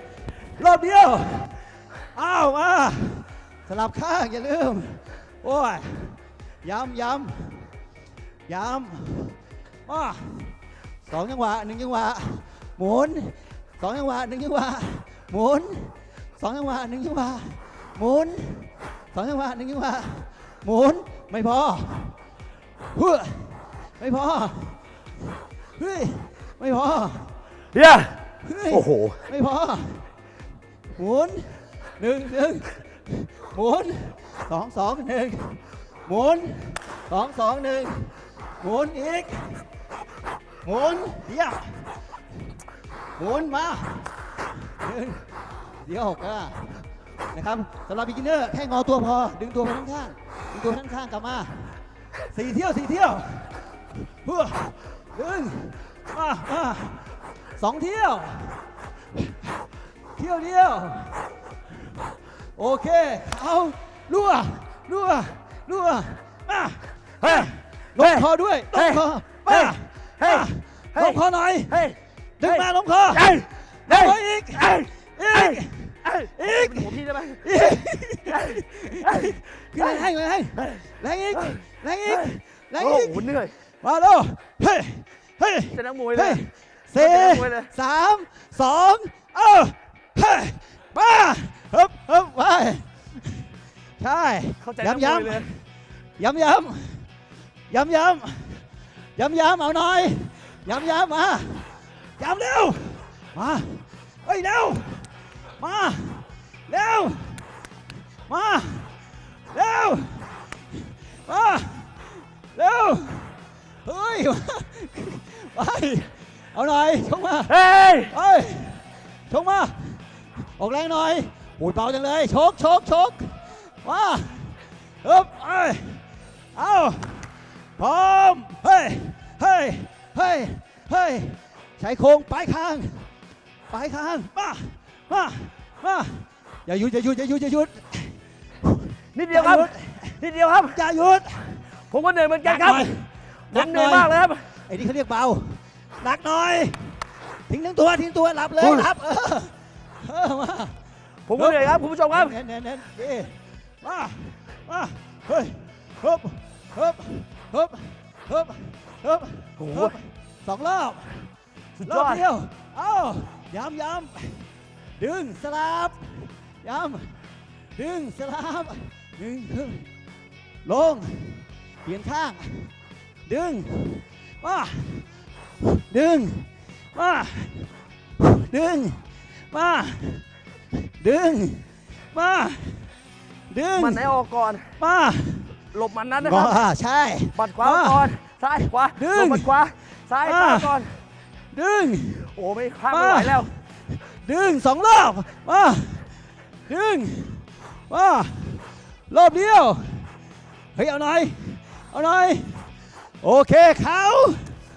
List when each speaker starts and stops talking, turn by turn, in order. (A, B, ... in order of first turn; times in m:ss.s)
0:00.6-0:01.6 A
0:02.1-0:07.7 A
0:08.5-0:10.5 A
0:11.0-0:22.2 A
0:22.9-0:24.8 A
0:25.8-0:27.3 A
0:27.7-0:29.2 B
0:28.4-0:30.0 A
0:31.0-0:39.6 A
0:40.6-0:41.9 A
0:43.2-0:44.2 A
0:44.7-0:45.3 A
0:45.8-0:51.8 A
0:52.3-0:53.6 A
0:54.2-0:57.0 A
0:57.6-0:58.6 A
1:00.2-1:01.2 A
1:02.6-1:11.8 A
1:07.2-1:20.0 B
1:12.4-1:33.4 A
1:20.6-1:23.6 B
1:25.7-1:26.4 B
1:26.9-1:27.7 B
1:34.0-1:35.6 A
1:34.6-1:35.5 B
1:36.2-1:37.1 A
1:37.7-1:38.6 A
1:39.2-1:47.5 A
1:48.3-1:48.9 A
1:49.5-1:57.5 A
1:57.5-1:58.1 B
1:58.1-2:00.0 A
2:00.6-2:06.0 A
2:06.5-2:13.1 A
2:13.7-2:18.8 A
2:19.1-2:20.8 B
2:19.3-2:20.2 A
2:20.7-2:21.6 A
2:21.9-2:22.9 B
2:22.4-2:24.2 A
2:23.5-2:24.4 B
2:24.7-2:30.8 A
2:28.6-2:28.9 B
2:31.3-2:32.4 B
2:31.3-2:41.3 A
2:39.6-2:40.0 B
2:41.8-2:42.2 B
2:41.8-2:44.5 A
2:45.0-2:47.2 A
2:47.8-2:49.9 A
2:50.6-2:52.7 A
2:53.3-2:55.1 A
2:55.6-3:00.2 A
3:00.8-3:02.9 A
3:03.5-3:04.1 A
3:03.7-3:04.8 B
3:04.8-3:05.5 A
3:05.7-3:06.6 B
3:06.2-3:08.1 A
3:07.3-3:10.9 B
3:08.9-3:09.6 A
3:10.2-3:10.8 A
3:11.5-3:12.3 A
3:12.3-3:13.5 B
3:12.9-3:16.1 A
3:16.7-3:20.1 A
3:20.7-3:22.7 A
3:23.2-3:24.5 A